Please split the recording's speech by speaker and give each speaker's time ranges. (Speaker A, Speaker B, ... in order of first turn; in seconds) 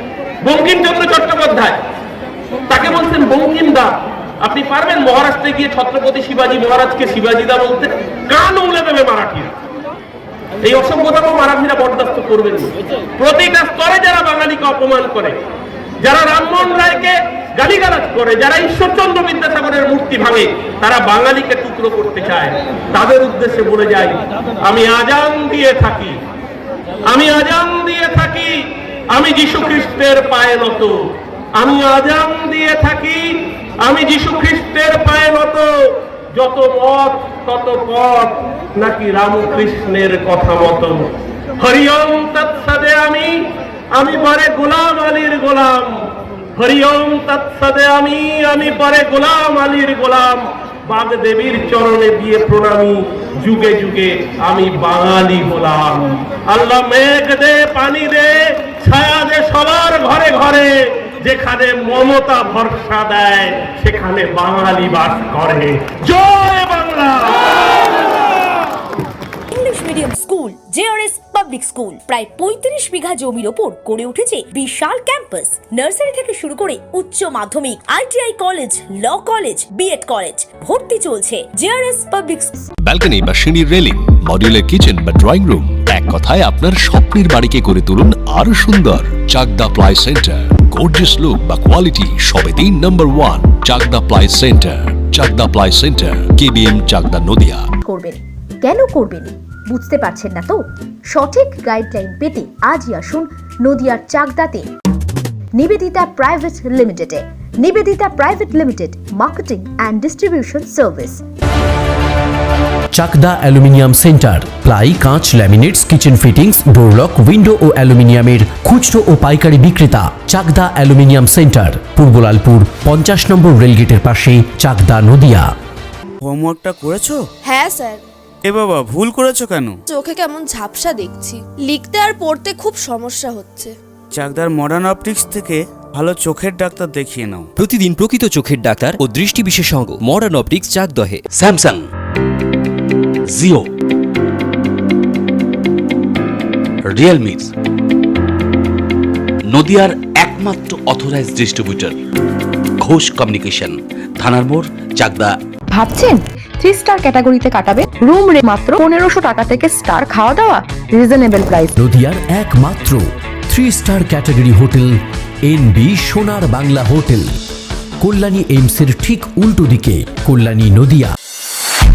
Speaker A: 0.4-1.8, 2.7-3.9, 4.4-9.5, 10.6-15.3, 16.0-26.2, 27.1-30.9, 31.6-41.0, 41.6-46.0, 46.6-67.9
Speaker B: 69.5-82.6
Speaker C: 82.8-97.6
Speaker D: 97.8-104.7, 105.5-111.2
Speaker E: 112.9-125.5, 161.8-167.3, 168.0-171.1
Speaker F: 126.2-127.2, 128.4-129.8, 134.1-137.5
Speaker G: 127.4-128.0, 129.9-133.7
Speaker H: 137.6-141.2
Speaker I: 141.3-141.8, 143.3-143.6, 146.9-147.5, 149.5-151.9, 152.8-155.3
Speaker J: 155.7-161.7